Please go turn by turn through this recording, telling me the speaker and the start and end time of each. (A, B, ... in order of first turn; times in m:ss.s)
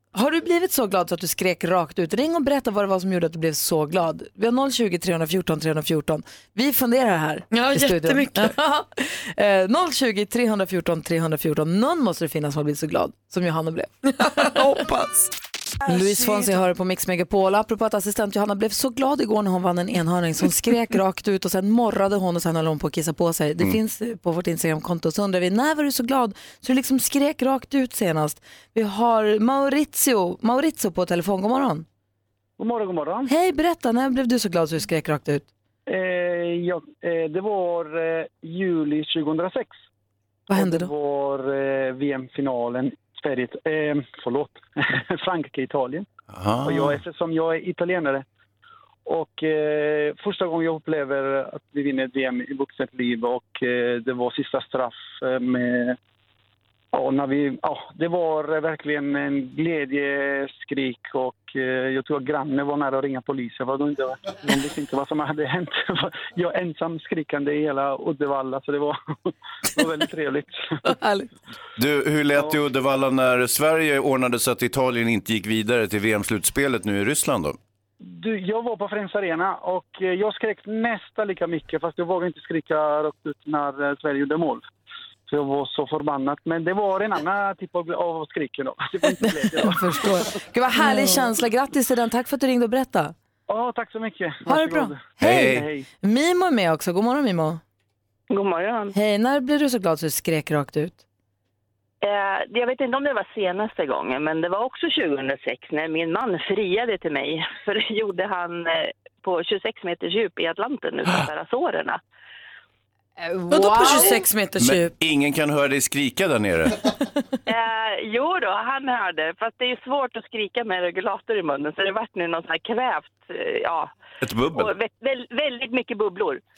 0:00.1-0:14.4 A
0:07.5-0:08.6 B
0:14.0-0:15.3 B
0:15.9-0:31.8 A
0:15.9-0:16.5 B
0:32.6-0:33.3 C
0:33.3-0:35.5 A
0:35.9-0:39.7 C
0:40.5-0:40.9 A
0:40.5-0:46.0 C
0:46.3-0:47.0 D
0:46.6-0:48.2 C
0:49.0-0:56.0 C
0:56.9-1:09.0 C
1:09.6-1:10.9 C
1:10.8-1:11.3 A
1:11.8-1:17.6 D
1:18.0-1:24.6 C
1:25.3-1:30.3 C
1:29.2-1:33.1 A
1:33.5-1:35.9 C
1:34.4-1:37.6 A
1:35.2-1:35.7 D
1:38.3-1:38.9 E
1:38.9-1:41.0 A
1:42.0-1:52.0 E
1:53.2-1:54.2 A
1:53.5-1:54.9 B
1:54.6-1:56.8 D
1:57.5-2:03.9 E
2:04.2-2:04.7 D
2:04.5-2:06.4 E